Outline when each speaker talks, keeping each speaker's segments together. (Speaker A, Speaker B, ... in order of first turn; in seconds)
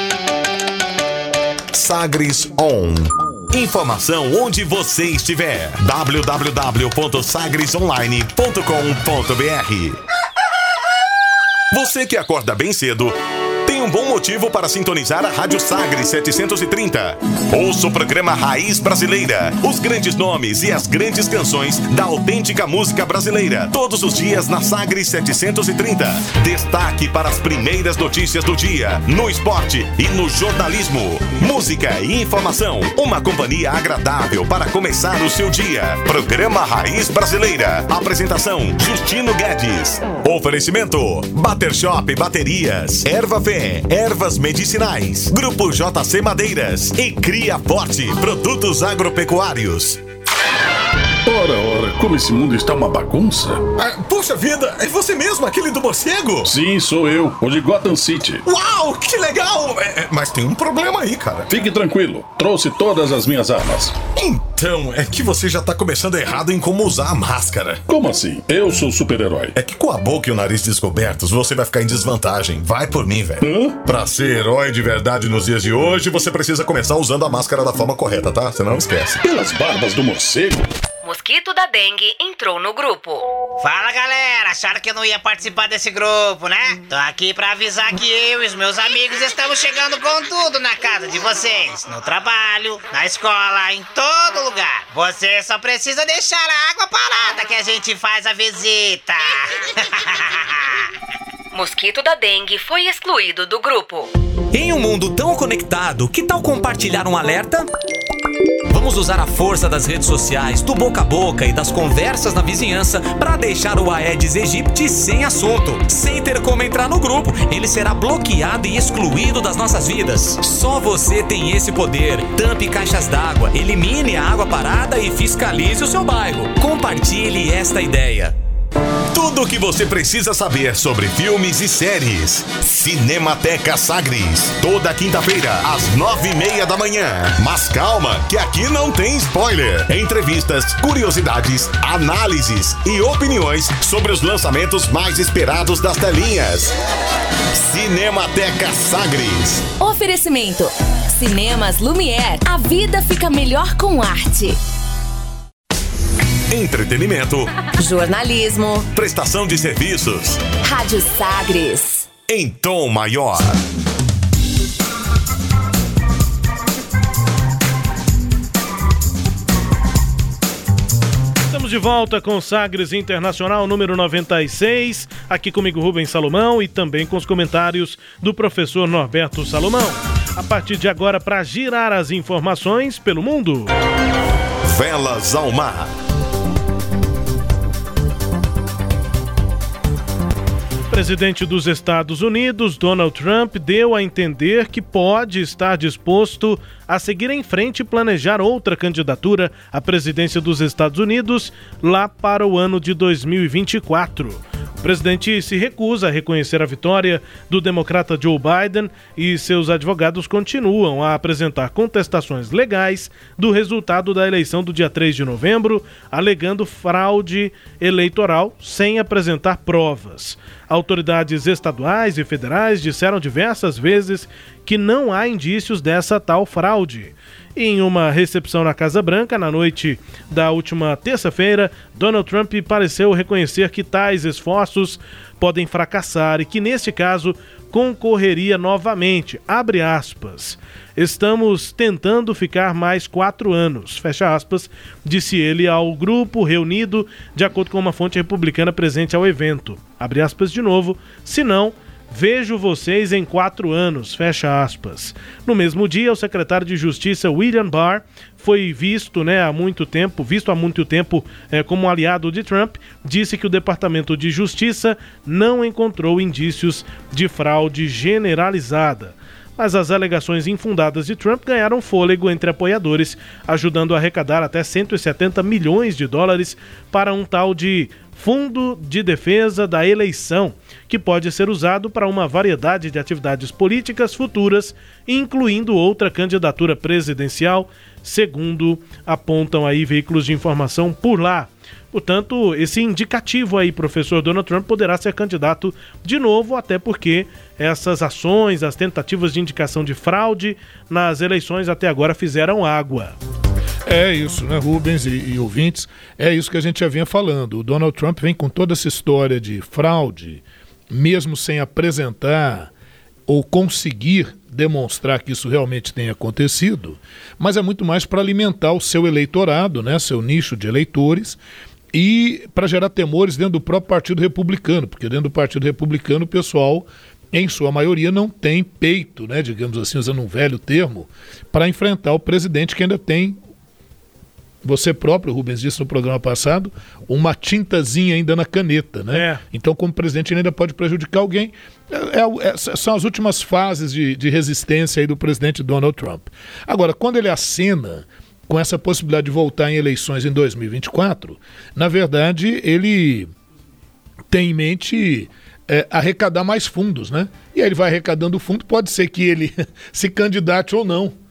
Speaker A: 1.7-10.0, 11.7-50.0, 53.7-56.5, 58.5-61.6, 64.1-67.8, 69.5-79.2, 129.1-146.7, 147.5-149.7, 156.5-157.5, 158.9-160.5, 162.3-163.6, 184.6-185.9
Speaker B: 51.2-53.6, 56.4-58.4, 61.5-63.9, 67.9-69.5, 73.4-73.8, 79.2-80.7
Speaker C: 81.0-83.2, 101.5-104.1, 149.8-154.6, 157.8-158.9, 160.6-162.1
Speaker D: 83.6-100.7
Speaker E: 104.5-107.7, 108.7-128.3
Speaker F: 171.5-183.7, 190.9-303.1, 339.1-339.4
Speaker G: 303.9-312.7, 313.3-321.4, 321.9-333.4, 334.6-353.3, 354.3-361.2